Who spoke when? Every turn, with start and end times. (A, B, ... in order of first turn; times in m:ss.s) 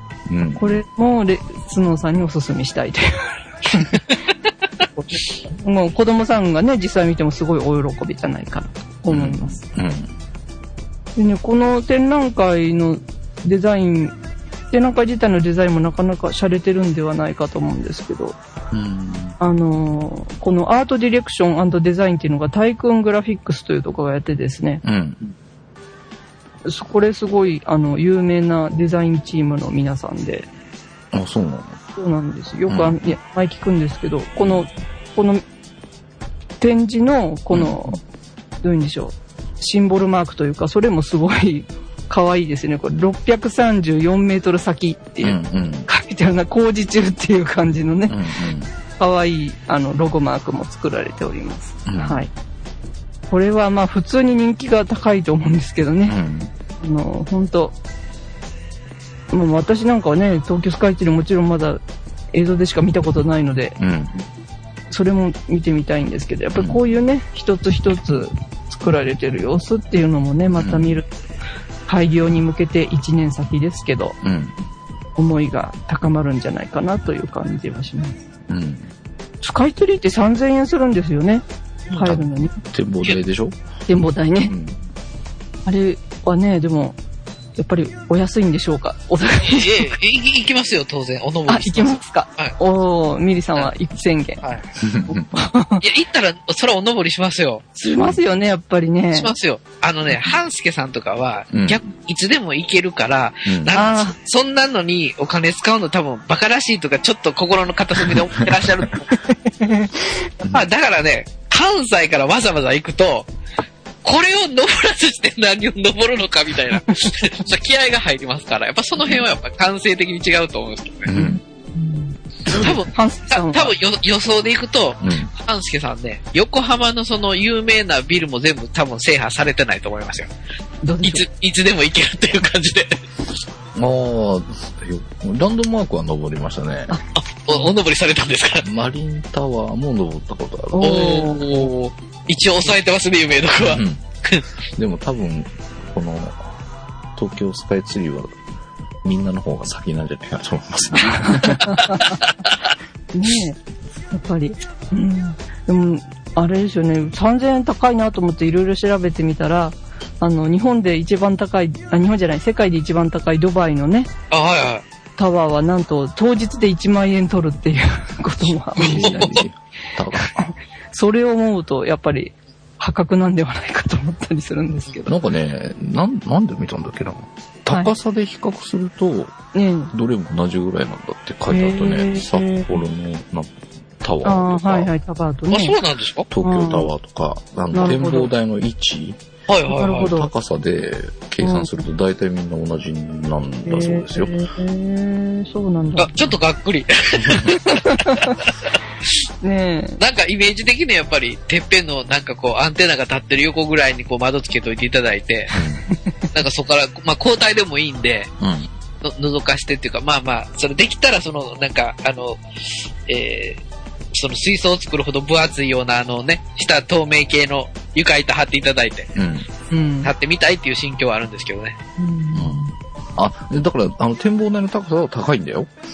0:00.3-0:00.8 A
0:00.6-0:04.0 B
0:05.0-0:09.6 B
0:09.1-0:10.1 A
0:11.2-0:14.1 B
0:14.7-0:18.4 B
0:18.7-0:19.4 A
0:19.4-0:24.8 B
0:24.8-0:25.3 A
0:26.6-0:30.5 B
0:31.1-0:31.8 A
0:32.0-0:35.4 B
0:32.7-0:33.0 A
0:34.4-0:34.6 A
0:36.6-0:38.0 B
0:37.5-0:37.9 A
0:38.6-0:48.2 B
0:45.2-0:45.9 A
0:48.1-0:48.7 A
0:49.0-0:52.3 B
0:51.8-0:52.2 A
0:53.3-0:56.2 B
0:56.1-0:56.5 A
0:56.8-0:57.7 B
0:59.3-1:03.8 B
1:03.8-1:04.2 A
1:04.9-1:11.1 B
1:10.6-1:11.0 A
1:11.9-1:14.2 B
1:14.2-1:14.6 A
1:15.2-1:18.2 B
1:18.5-1:18.9 A
1:19.4-1:22.6 B
1:22.0-1:23.6 A
1:23.9-1:24.5 B
1:24.5-1:24.8 A
1:25.6-1:27.0 B
1:27.6-1:30.0 B
1:29.4-1:32.5 C
1:31.5-1:34.4 B
1:34.8-1:35.3 A
1:35.1-1:35.8 B
1:35.8-1:37.6 C
1:37.7-1:39.3 B
1:39.1-1:49.1 C
1:41.5-1:41.8 A
1:43.5-1:43.7 A
1:43.7-1:44.2 B
1:49.2-1:50.2 B
1:50.4-1:50.7 A
1:50.5-1:53.3 C
1:54.0-2:01.1 C
2:01.1-2:01.4 A
2:01.1-2:02.2 B
2:02.5-2:02.8 A
2:02.5-2:10.3 C
2:02.9-2:03.7 B
2:05.0-2:05.3 A
2:10.8-2:11.2 B
2:11.0-2:13.0 C
2:13.7-2:17.0 A
2:16.9-2:17.7 B
2:17.2-2:18.6 C
2:18.6-2:21.1 A
2:20.7-2:21.7 B
2:20.8-2:24.4 C
2:23.6-2:24.0 A
2:24.7-2:26.6 A
2:27.2-2:28.3 A
2:29.0-2:31.6 A
2:31.0-2:32.1 B
2:31.6-2:32.5 C
2:33.1-2:33.6 B
2:34.1-2:44.1 B
2:44.3-2:44.8 C
2:45.2-2:49.4 B
2:48.8-2:50.5 A
2:48.8-2:49.4 C
2:50.9-2:55.1 B
2:55.1-2:59.4 A
2:59.5-2:59.9 B
2:59.9-3:04.9 A
3:01.5-3:02.8 B
3:04.2-3:05.8 B
3:05.5-3:06.3 C
3:06.3-3:09.2 A
3:06.4-3:06.9 B
3:07.7-3:08.3 B
3:09.5-3:10.1 C
3:09.7-3:10.3 B
3:10.0-3:14.4 A
3:11.4-3:11.8 B
3:13.6-3:16.3 B
3:16.0-3:19.1 C
3:17.2-3:17.4 A
3:17.6-3:18.3 B
3:19.4-3:20.0 B
3:20.0-3:25.5 C
3:25.5-3:25.8 A
3:26.3-3:28.3 C
3:28.4-3:28.7 A
3:29.0-3:32.4 C
3:33.0-3:33.6 C
3:34.1-3:39.1 C
3:39.1-3:39.4 A
3:39.7-3:40.1 B
3:40.0-3:41.8 C
3:42.0-3:42.7 B
3:42.3-3:42.6 A
3:43.2-3:45.7 A